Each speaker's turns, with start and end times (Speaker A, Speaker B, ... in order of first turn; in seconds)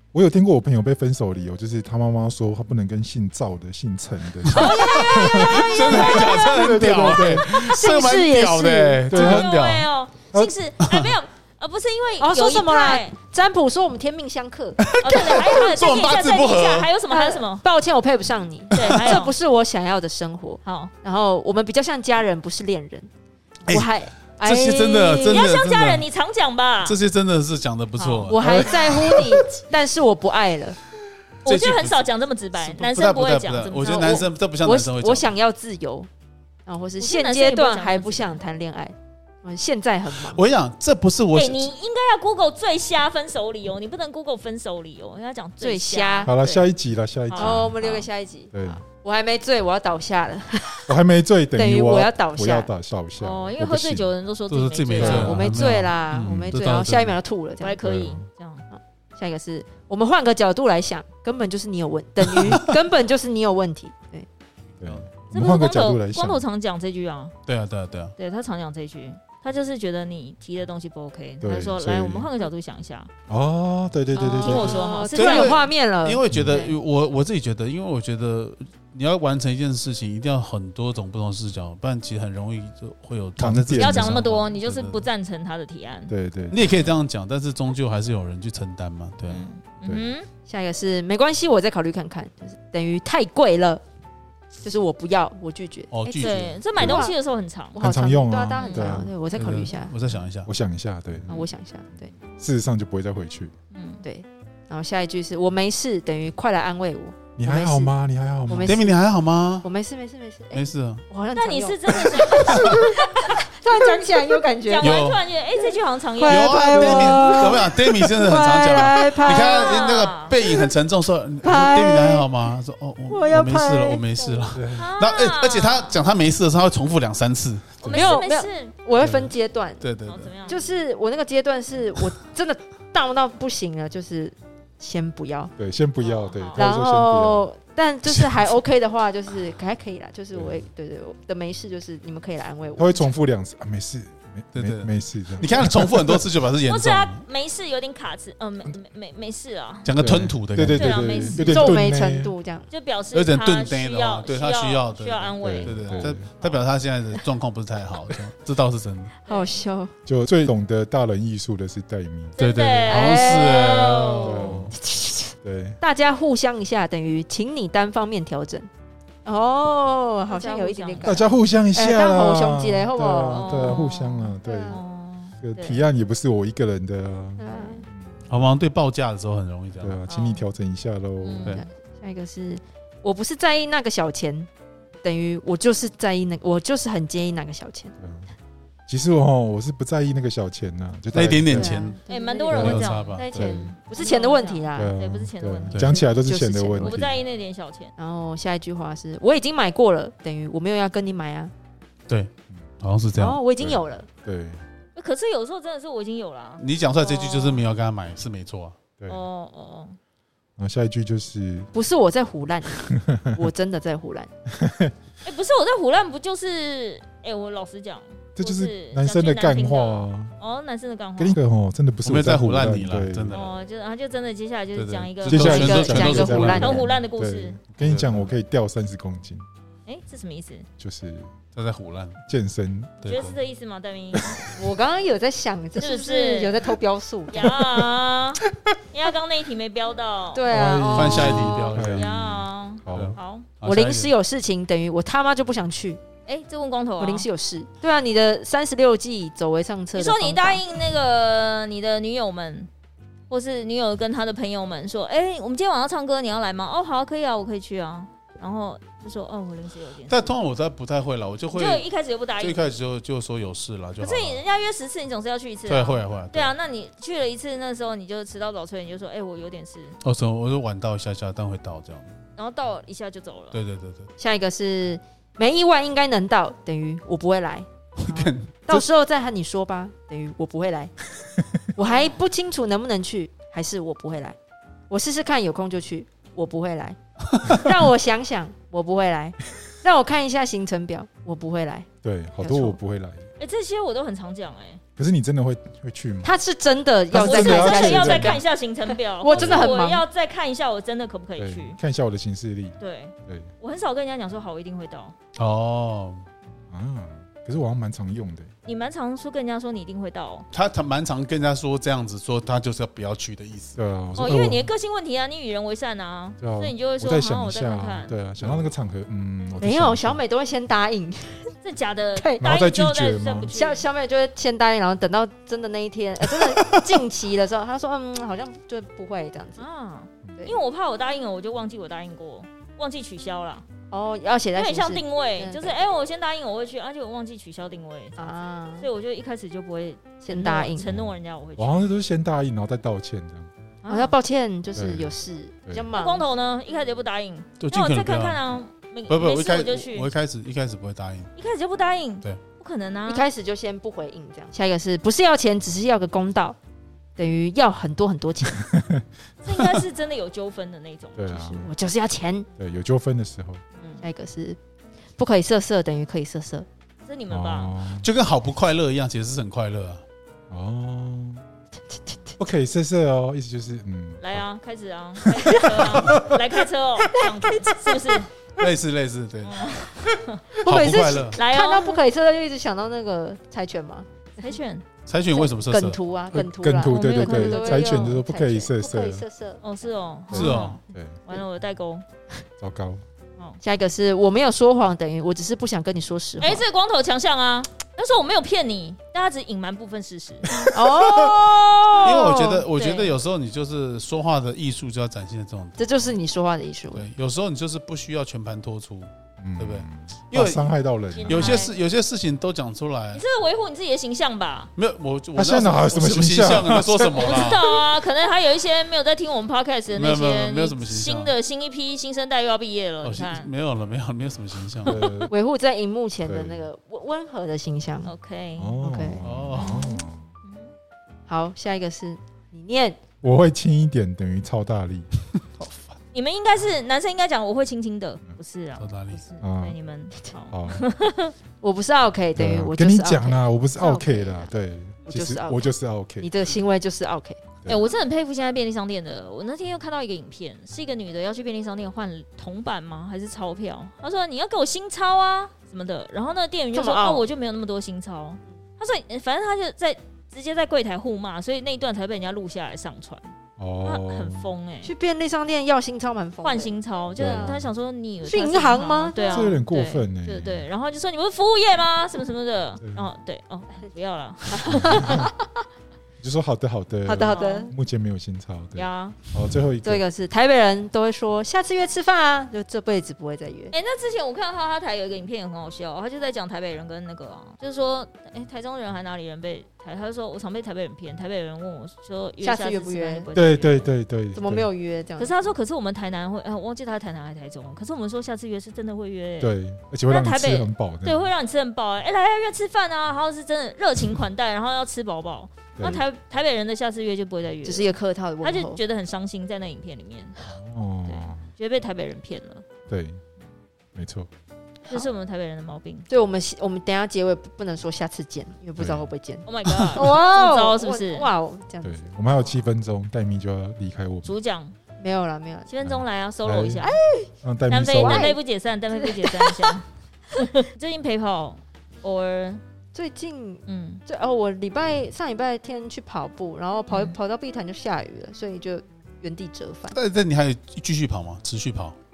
Speaker A: 0.1-7.7, 9.1-9.5, 28.4-29.5, 46.2-47.8, 48.5-48.8, 50.9-54.1, 55.0-55.4, 56.2-56.6, 57.8-58.2, 64.8-66.4, 71.4-72.3, 73.3-74.9, 76.3-76.6, 83.4-84.2, 86.1-86.9, 97.8-99.1, 100.5-101.5, 102.0-103.5, 107.4-108.9, 116.7-117.6, 124.5-124.9, 127.8-128.1, 135.6-137.4, 140.3-140.6, 142.8-146.2, 150.0-152.3, 155.4-156.3, 160.1-162.4, 164.2-164.8, 165.4-165.8, 171.0-174.8, 175.4-178.2, 179.8-181.6, 188.0-188.3, 188.9-191.9, 192.5-193.7, 194.7-197.2, 203.6-204.6, 210.6-211.7, 212.8-213.5, 214.5-214.9, 218.3-220.3, 221.2-223.4, 225.3-229.4, 230.8-231.3, 232.2-233.0, 234.1-234.6, 240.9-243.2, 292.0-293.3, 294.9-296.3, 297.1-298.4, 299.3-299.6, 301.4-303.5, 306.7-308.5, 313.8-314.7, 316.4-320.2, 322.4-323.5, 340.9-343.5, 344.7-345.1, 358.6-359.0, 361.1-361.7, 362.6-363.6, 367.3-368.1, 370.5-371.4, 372.4-374.4, 375.5-376.4, 386.3-389.2, 390.3-391.2, 392.6-393.0, 409.4-411.6, 415.3-417.6, 424.8-425.3, 426.2-426.7, 428.6-430.3, 433.2-435.1, 439.4-439.8, 440.5-440.9, 442.4-446.3, 463.6-464.5, 467.1-467.7, 469.3-470.7, 472.8-473.0, 474.7-475.3, 476.2-480.0, 493.3-494.7, 499.4-501.3, 505.8-506.0, 510.4-511.4, 512.9-513.2, 513.9-514.3, 518.8-519.1, 521.8-524.3, 525.8-526.9, 527.4-528.4
Speaker B: 4.4-9.9, 14.8-16.9, 18.7-19.2, 23.6-26.1, 26.8-29.1, 31.4-35.3, 40.1-41.7, 54.5-57.2, 67.5-68.1, 75.1-85.0, 86.5-89.5, 95.9-96.6, 99.3-100.5, 108.6-109.7, 110.5-111.0, 114.8-115.2, 116.2-127.8, 129.0-130.3, 144.5-147.2, 149.8-151.1, 153.1-159.2, 162.4-164.7, 178.3-180.0, 191.1-192.0, 192.5-193.6, 195.7-196.0, 202.1-203.4, 206.6-208.8, 222.0-223.5, 224.7-226.8, 227.8-228.3, 231.5-232.2, 233.0-233.4, 240.5-242.1, 242.9-244.1, 260.1-261.8, 262.4-264.4, 265.7-266.5, 270.0-272.1, 273.5-274.1, 278.0-278.9, 287.4-287.7, 305.4-306.2, 310.5-313.8, 347.6-348.4, 349.1-351.3, 368.0-370.0, 378.6-379.9, 380.6-381.4, 385.1-386.0, 390.3-390.8, 400.9-405.8, 406.9-410.7, 411.2-413.2, 414.8-417.6, 419.9-421.3, 423.0-425.0, 429.2-429.8, 438.8-439.2, 539.9-542.0
Speaker C: 4.5-6.5, 9.1-13.1, 15.0-17.6, 18.7-19.3, 20.6-20.9, 25.2-26.9, 28.0-28.4, 31.4-34.3, 37.0-38.4, 41.3-46.6, 47.3-48.1, 53.2-55.4, 57.6-58.6, 65.3-67.3, 68.2-73.1, 74.2-75.6, 83.8-86.1, 89.3-90.3, 96.2-97.8, 98.5-99.0, 103.7-104.0, 111.3-114.0, 114.6-116.6, 119.0-120.3, 124.7-126.0, 127.8-128.7, 130.1-130.7, 136.0-136.6, 146.7-149.9, 150.7-151.8, 152.7-156.1, 159.2-159.6, 162.4-164.6, 170.3-171.2, 173.3-175.8, 177.5-177.8, 180.1-180.4, 181.2-181.7, 192.1-196.0, 196.8-197.9, 204.9-207.6, 209.1-210.0, 215.2-221.4, 223.3-227.6, 229.8-230.7, 233.0-234.4, 235.8-236.6, 237.3-240.5, 241.5-243.5, 246.2-247.3, 249.9-252.7, 253.3-260.1, 261.5-262.6, 264.0-270.0, 272.4-273.6, 281.8-282.2, 293.4-294.8, 297.2-301.8, 302.8-305.1, 308.6-310.5, 314.2-318.1, 321.6-323.8, 329.6-333.6, 334.5-338.1, 338.8-341.9, 343.8-344.1, 345.9-350.1, 351.4-353.2, 359.4-361.5, 363.8-364.0, 367.1-367.7, 374.2-378.3, 379.4-382.0, 384.4-384.8, 386.9-388.1, 389.6-392.0, 396.4-400.7, 402.7-403.1, 411.1-411.7, 413.1-414.7, 417.1-423.5, 424.9-425.2, 428.0-428.8, 429.5-430.7, 436.1-441.4, 447.6-463.2, 463.8-464.9, 466.4-475.3, 477.3-477.7, 478.7-479.2, 483.7-493.9, 495.2-499.5, 500.1-507.9, 508.4-510.4, 511.1-512.6, 514.9-516.1, 519.4-521.3, 524.2-524.7, 525.7-527.0, 527.7-532.6, 533.6-534.0
Speaker D: 4.5-9.1, 12.2-15.3, 17.1-23.1, 23.6-25.4, 28.3-30.8, 33.8-36.1, 36.6-40.4, 45.6-46.4, 47.4-50.9, 51.5-52.7, 55.0-57.8, 58.7-64.3, 74.1-76.7, 90.5-93.8, 94.6-97.2, 97.7-99.9, 101.3-102.1, 104.0-107.9, 108.5-108.9, 109.6-115.0, 115.5-120.7, 121.4-122.2, 123.1-124.6, 127.8-129.9, 130.5-135.5, 136.6-143.1, 151.3-152.7, 159.3-159.9, 162.9-163.8, 164.8-168.7, 169.2-173.8, 174.4-174.8, 177.4-177.8, 181.5-184.5, 185.0-187.9, 191.5-194.9, 195.9-197.0, 198.0-201.5, 203.2-204.1, 211.7-214.3, 225.3-226.8, 234.6-237.5, 240.3-241.7, 243.6-246.0, 247.0-250.6, 274.2-280.9, 281.7-284.4, 284.9-291.9, 292.4-292.8, 296.2-300.0, 319.6-321.5, 322.1-322.4, 323.5-329.6, 333.9-335.8, 338.2-338.9, 340.2-340.9, 343.9-346.3, 353.1-356.6, 357.2-358.7, 361.3-362.5, 364.0-364.6, 365.2-366.6, 375.4-376.0, 377.1-378.2, 380.6-384.5, 385.3-389.9, 393.6-396.6, 400.6-402.7, 405.8-407.1, 425.3-428.1, 428.8-429.2, 431.3-433.0, 441.6-444.5, 445.1-445.6, 446.2-447.4, 456.7-457.3, 464.8-467.6, 468.2-469.6, 474.5-475.5, 477.0-477.7, 479.8-483.7, 492.4-493.3, 494.3-495.3, 507.6-508.8, 516.1-522.3, 525.0-525.7, 526.8-527.3, 528.0-528.4, 528.9-529.7, 532.9-540.0